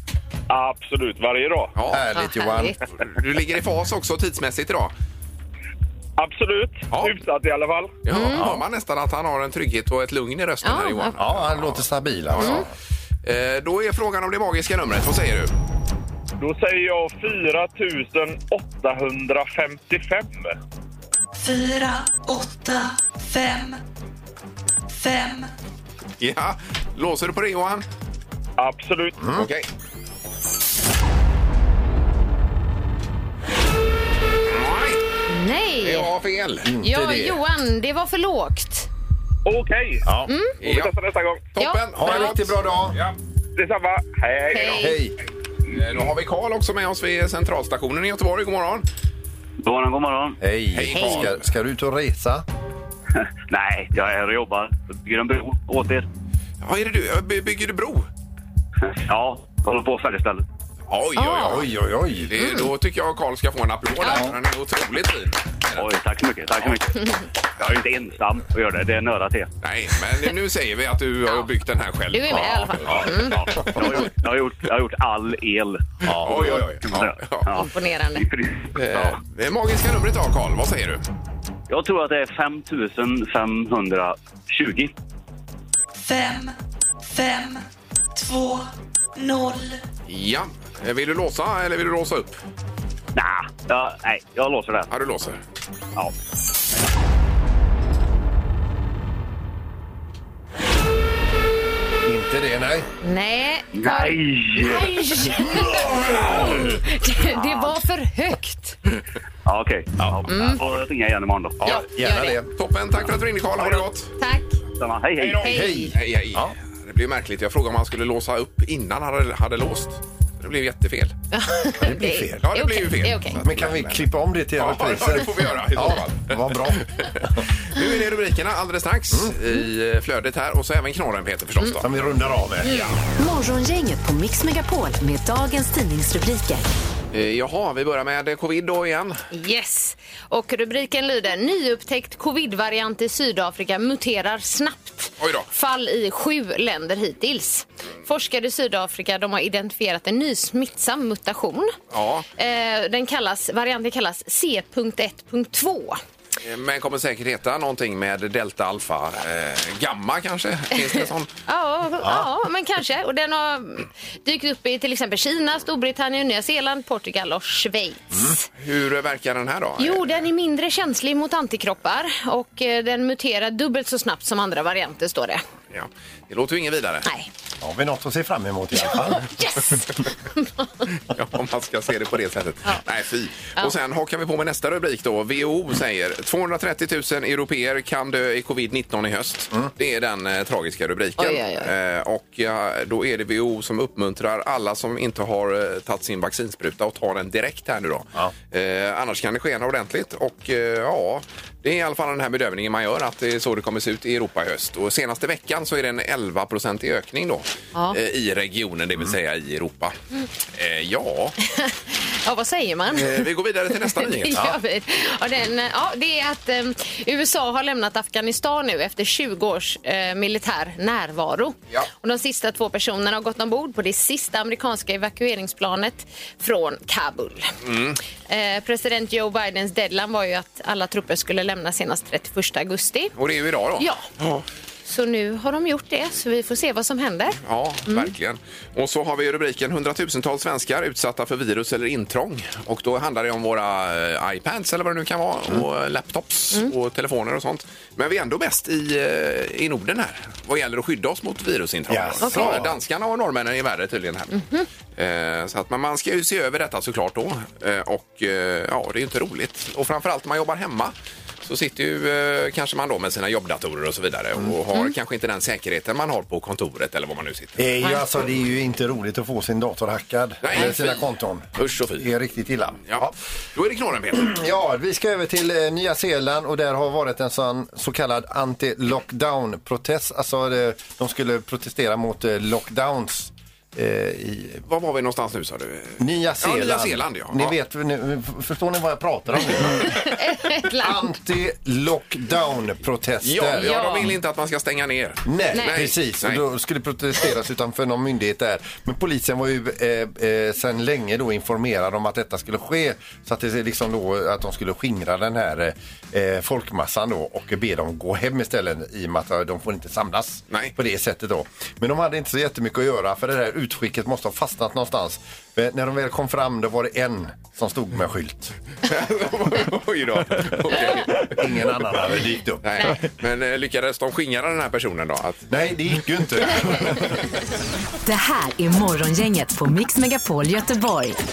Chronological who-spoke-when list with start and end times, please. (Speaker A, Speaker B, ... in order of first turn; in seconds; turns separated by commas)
Speaker A: 0.5-1.7, Speaker B: 1.8-2.1, Speaker C: 1.9-2.8, Speaker D: 2.1-2.8, Speaker B: 3.0-4.9, Speaker A: 6.2-8.0, Speaker B: 6.9-7.2, Speaker B: 8.1-12.7, Speaker D: 8.1-8.4, Speaker C: 8.3-8.6, Speaker D: 10.6-11.2, Speaker C: 11.2-12.7, Speaker D: 12.4-12.7, Speaker B: 13.2-15.5, Speaker A: 16.4-20.6, Speaker E: 21.4-23.8, Speaker E: 24.9-25.5, Speaker B: 26.2-27.9, Speaker A: 28.6-29.2, Speaker C: 29.2-29.5, Speaker B: 29.4-29.7, Speaker B: 34.5-35.0, Speaker D: 35.3-36.1, Speaker B: 35.8-36.7, Speaker C: 36.6-37.4, Speaker D: 36.8-38.9, Speaker A: 39.5-40.0, Speaker C: 40.0-40.3, Speaker D: 40.3-40.6, Speaker B: 40.6-40.9, Speaker A: 40.6-41.5, Speaker B: 41.5-43.1, Speaker D: 41.6-42.4, Speaker C: 42.0-43.0, Speaker A: 43.6-45.0, Speaker D: 44.5-45.0, Speaker C: 44.8-45.1, Speaker B: 45.7-48.9, Speaker F: 49.6-50.4, Speaker C: 50.4-52.5, Speaker B: 50.7-51.4, Speaker D: 50.9-51.3, Speaker F: 53.5-56.1, Speaker B: 56.6-58.1, Speaker F: 59.1-60.4, Speaker B: 60.9-65.9, Speaker D: 61.2-61.6, Speaker C: 61.4-62.3, Speaker D: 62.4-62.7, Speaker D: 64.0-64.3, Speaker F: 65.8-69.5, Speaker B: 69.6-73.3, Speaker D: 72.1-73.4, Speaker F: 73.2-79.2, Speaker B: 76.2-77.5, Speaker D: 77.5-78.3, Speaker B: 78.8-81.0, Speaker F: 81.7-84.9, Speaker E: 86.0-86.5, Speaker E: 87.1-87.6, Speaker E: 88.2-89.8, Speaker B: 90.1-92.4, Speaker F: 93.2-94.9, Speaker B: 94.9-95.4, Speaker C: 102.0-102.9, Speaker D: 103.0-108.8, Speaker F: 103.7-105.0, Speaker F: 107.3-107.8, Speaker F: 109.5-111.6, Speaker D: 110.3-110.6, Speaker C: 111.6-112.5, Speaker D: 111.7-112.4, Speaker B: 112.6-114.1, Speaker D: 114.2-114.6, Speaker F: 114.8-115.6, Speaker B: 115.2-121.2, Speaker D: 115.4-116.0, Speaker C: 115.4-116.5, Speaker D: 121.3-123.4, Speaker C: 121.8-122.4, Speaker B: 122.3-127.2, Speaker C: 123.4-127.4, Speaker B: 127.7-131.9, Speaker C: 131.8-132.9, Speaker D: 132.6-132.9, Speaker G: 133.1-136.7, Speaker B: 137.1-139.2, Speaker D: 139.3-151.8, Speaker B: 145.2-145.5, Speaker B: 151.9-152.3, Speaker D: 152.4-156.0, Speaker B: 156.4-161.3, Speaker D: 161.5-168.4, Speaker C: 162.0-162.3, Speaker B: 168.6-170.0, Speaker D: 169.8-175.4, Speaker B: 175.7-177.1, Speaker C: 177.6-179.3, Speaker D: 178.8-180.7, Speaker B: 181.1-209.9, Speaker D: 191.2-191.7, Speaker B: 210.5-211.4, Speaker D: 211.5-213.3, Speaker B: 212.9-214.4, Speaker D: 213.8-227.5, Speaker B: 227.6-228.0, Speaker D: 228.3-233.1, Speaker B: 233.2-234.4, Speaker D: 233.8-234.0, Speaker D: 234.9-238.1, Speaker B: 237.4-254.4, Speaker C: 251.9-252.8, Speaker D: 252.2-252.6, Speaker D: 254.3-254.7, Speaker B: 255.0-260.9, Speaker B: 261.4-267.6, Speaker C: 267.6-273.1, Speaker B: 270.4-272.1, Speaker B: 272.9-274.4, Speaker C: 274.2-284.6, Speaker B: 284.7-287.6, Speaker C: 286.0-290.2, Speaker D: 289.8-291.1, Speaker C: 290.8-293.8, Speaker B: 293.2-296.4, Speaker D: 293.6-294.1, Speaker C: 295.2-318.5, Speaker D: 295.5-295.8, Speaker B: 318.9-321.4, Speaker C: 321.1-323.0, Speaker B: 322.6-325.5, Speaker C: 325.5-327.3, Speaker G: 328.1-331.2